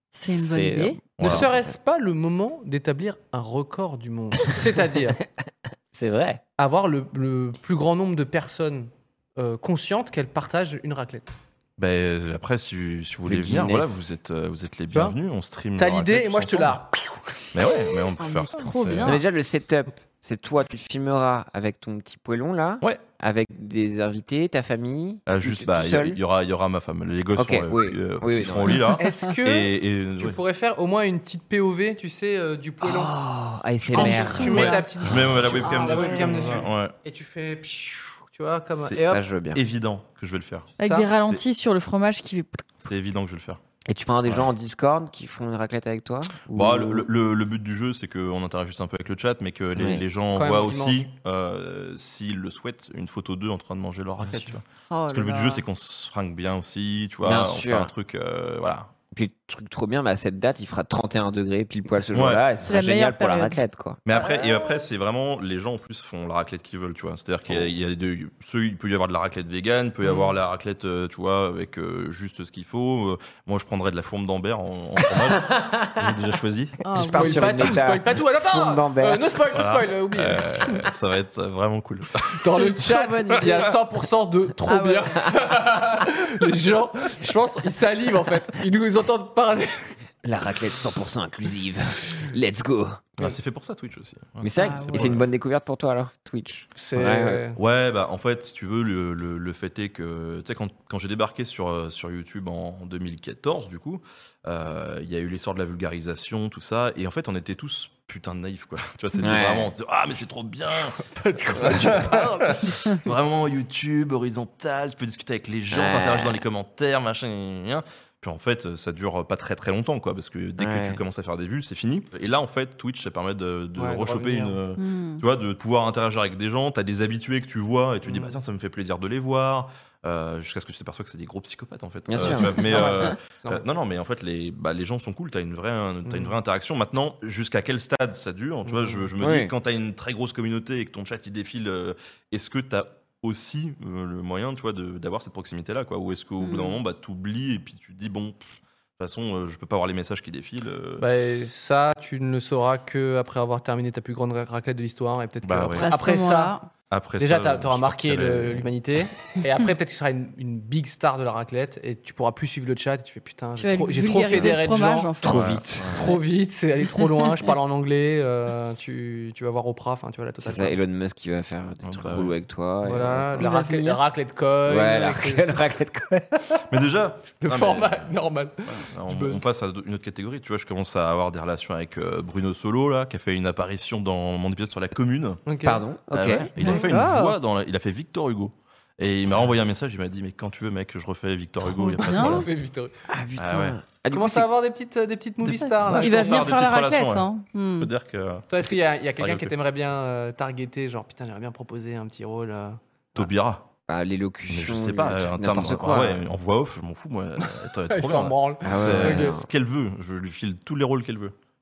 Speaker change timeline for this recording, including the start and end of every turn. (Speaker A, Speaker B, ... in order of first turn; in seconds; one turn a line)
Speaker A: 0.1-1.0
Speaker B: 0.3-1.7
Speaker C: 1.2-1.5
Speaker D: 1.2-5.2
Speaker B: 5.9-6.4
Speaker D: 6.6-11.4
Speaker C: 11.8-16.8
Speaker B: 13.3-14.0
Speaker D: 15.8-17.4
Speaker C: 17.5-19.2
Speaker A: 18.2-19.2
Speaker B: 19.0-26.2
Speaker C: 25.3-30.4
Speaker B: 27.4-28.9
Speaker D: 29.0-33.1
Speaker B: 32.8-35.4
Speaker A: 33.9-34.9
Speaker D: 33.9-39.2
Speaker C: 34.4-37.0
Speaker A: 35.6-36.4
Speaker B: 38.9-39.6
Speaker C: 39.5-41.4
Speaker A: 40.8-42.6
Speaker D: 40.8-41.1
Speaker C: 42.8-43.6
Speaker B: 43.9-47.1
Speaker C: 46.5-58.9
Speaker B: 49.8-50.0
Speaker D: 50.3-51.0
Speaker A: 54.9-55.6
Speaker B: 57.2-57.9
Speaker B: 59.1-64.0
Speaker C: 62.1-62.5
Speaker A: 62.6-63.6
Speaker C: 64.0-76.8
Speaker A: 64.1-64.8
Speaker B: 75.4-76.0
Speaker A: 76.8-77.8
Speaker B: 76.9-79.3
Speaker D: 77.0-80.9
Speaker C: 79.5-82.4
Speaker D: 82.4-89.9
Speaker A: 82.6-83.8
Speaker A: 84.7-85.3
Speaker B: 90.2-93.0
Speaker C: 93.2-95.3
Speaker B: 94.4-97.4
Speaker A: 94.5-95.1
Speaker D: 96.8-97.6
Speaker C: 97.6-111.0
Speaker B: 109.2-109.7
Speaker D: 111.0-112.8
Speaker C: 111.5-148.4
Speaker B: 115.7-116.4
Speaker B: 120.6-121.0
Speaker D: 123.8-124.6
Speaker A: 124.8-125.2
Speaker D: 128.1-128.4
Speaker B: 132.1-133.1
Speaker D: 132.2-133.6
Speaker D: 136.1-136.3
Speaker D: 138.7-139.1
Speaker B: 139.2-139.5
Speaker A: 146.4-146.8
Speaker C: 149.0-151.1
Speaker D: 151.0-156.6
Speaker C: 155.4-155.9
Speaker A: 155.7-156.7
Speaker C: 156.9-158.7
Speaker D: 157.2-165.1
Speaker A: 163.6-165.5
Speaker C: 164.3-164.6
Speaker B: 165.2-166.0
Speaker C: 165.2-166.1
Speaker D: 165.8-170.8
Speaker B: 170.4-173.5
Speaker C: 171.8-172.3
Speaker D: 172.8-175.4
Speaker A: 173.4-174.0
Speaker B: 174.7-176.4
Speaker C: 176.7-178.1
Speaker D: 177.4-179.4
Speaker C: 178.7-185.4
Speaker D: 185.4-185.8
Speaker B: 185.6-186.5
Speaker C: 186.1-192.5
Speaker A: 186.6-187.4
Speaker A: 191.6-192.5
Speaker D: 192.1-192.9
Speaker B: 193.1-194.5
Speaker C: 193.4-193.8
Speaker D: 194.1-196.4
Speaker C: 195.4-199.5
Speaker A: 195.8-197.9
Speaker D: 198.5-203.2
Speaker C: 203.2-203.7
Speaker B: 203.9-206.2
Speaker C: 204.5-211.3
Speaker D: 207.9-209.4
Speaker B: 208.6-209.5